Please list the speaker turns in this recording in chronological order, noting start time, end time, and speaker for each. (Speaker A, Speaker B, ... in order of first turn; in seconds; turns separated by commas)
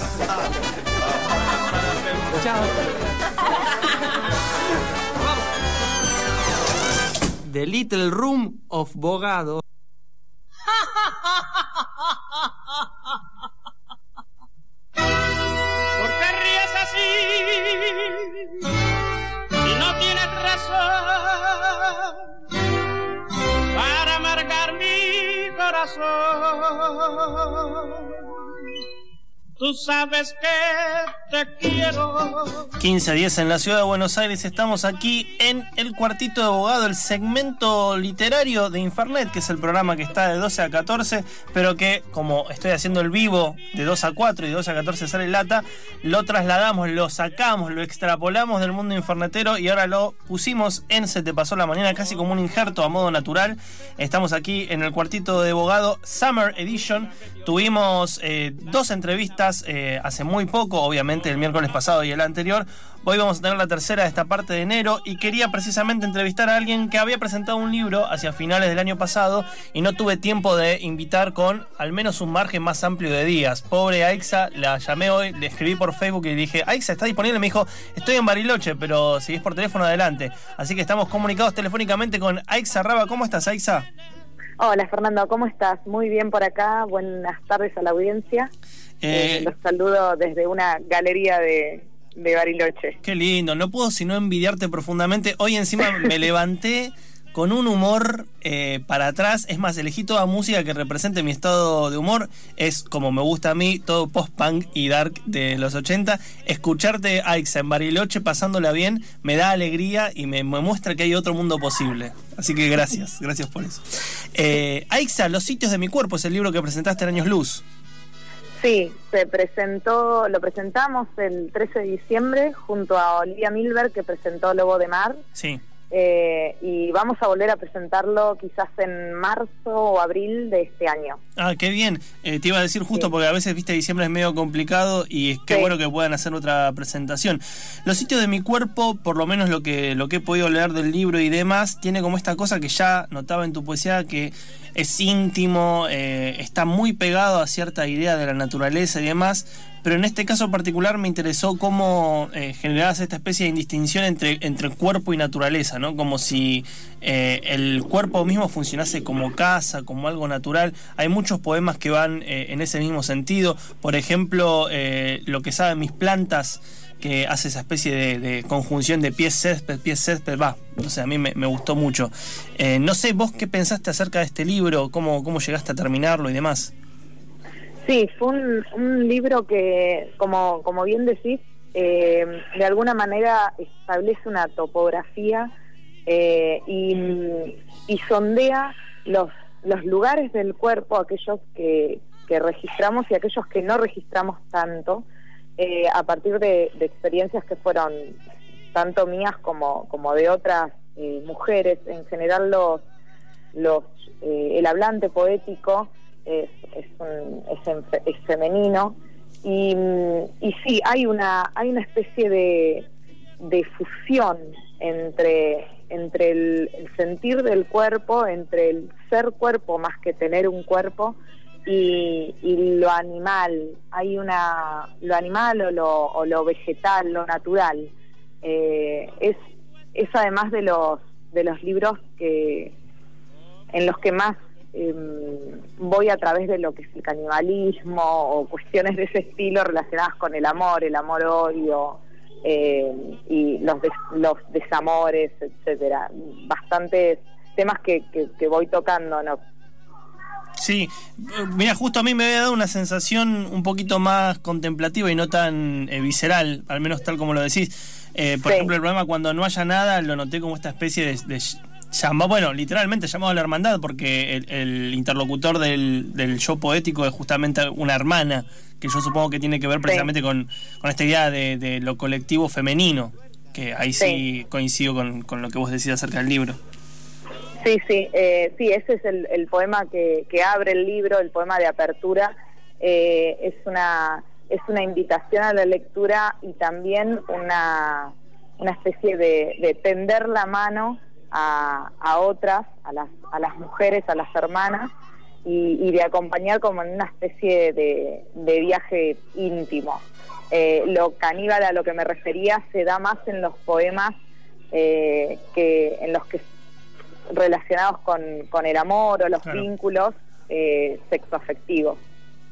Speaker A: 2.2-2.9, Speaker A: 7.5-9.6, Speaker B: 16.0-18.6, Speaker B: 19.6-22.2, Speaker B: 23.7-28.1, Speaker B: 29.6-32.7, Speaker A: 32.8-83.9, Speaker C: 84.6-88.5, Speaker A: 89.0-89.5, Speaker C: 89.1-93.0, Speaker A: 93.0-117.6, Speaker C: 118.6-125.2, Speaker A: 125.4-125.6, Speaker C: 125.9-131.2, Speaker A: 131.4-176.7, Speaker C: 177.8-185.5, Speaker C: 186.1-195.1, Speaker C: 195.6-198.2, Speaker C: 198.7-202.8, Speaker C: 203.5-212.9, Speaker C: 213.4-227.9, Speaker C: 228.4-229.4, Speaker C: 229.9-232.8, Speaker C: 233.7-249.4, Speaker A: 250.6-276.6, Speaker C: 258.4-258.7, Speaker C: 269.9-270.1, Speaker C: 277.6-294.9, Speaker C: 295.4-304.1, Speaker C: 304.7-306.4, Speaker C: 307.3-312.0